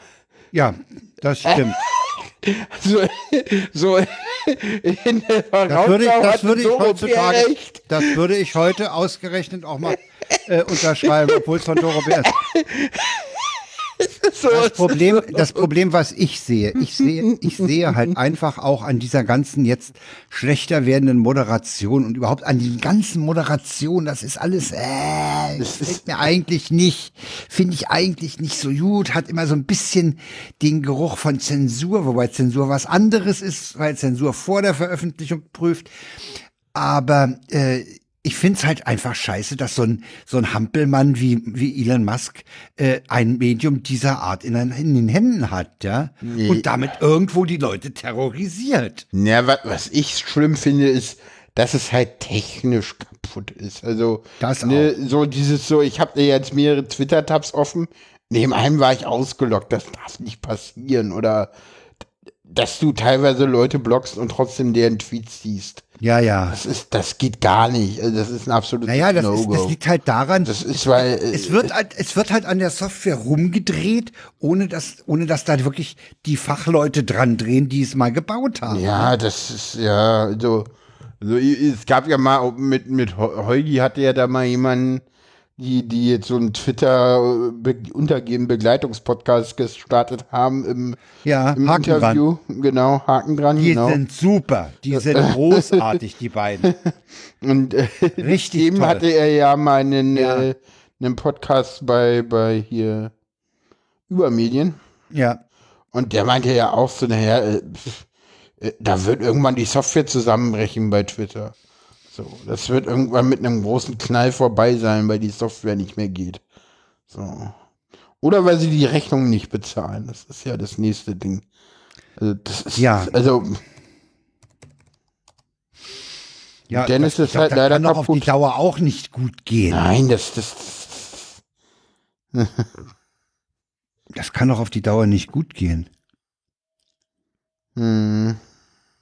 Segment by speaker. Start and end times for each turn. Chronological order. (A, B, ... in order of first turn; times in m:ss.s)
0:00.5-0:01.8 A
0:01.5-0:08.2 B
0:05.7-0:12.3 A
0:10.8-0:15.7 B
0:14.5-0:35.9 A
0:16.9-0:18.2 B
0:25.6-0:26.0 B
0:36.7-0:49.0 A
0:46.2-0:46.7 B
0:49.1-1:01.5 B
0:54.4-0:54.9 A
1:02.5-1:05.8 B
1:06.0-1:06.6 A
1:06.5-1:09.8 B
1:08.9-1:19.1 A
1:10.4-1:11.7 B
1:18.7-1:20.7 B
1:21.2-1:25.0 B
1:25.6-1:31.0 B
1:31.2-1:32.2 A
1:31.6-1:34.0 B
1:33.6-1:36.7 A
1:34.9-1:36.0 B
1:36.6-1:43.1 B
1:38.2-1:39.0 A
1:40.1-1:40.5 A
1:44.1-1:44.8 B
1:45.1-1:45.4 A
1:45.9-1:48.0 B
1:48.6-1:51.5 B
1:52.1-1:56.4 B
1:57.1-1:57.6 B
1:58.2-2:01.4 B
2:02.2-2:03.6 B
2:02.8-2:03.1 A
2:06.7-2:09.9 A
2:06.7-2:08.3 B
2:09.7-2:11.4 B
2:12.3-2:12.7 B
2:14.1-2:15.9 A
2:17.8-2:18.4 B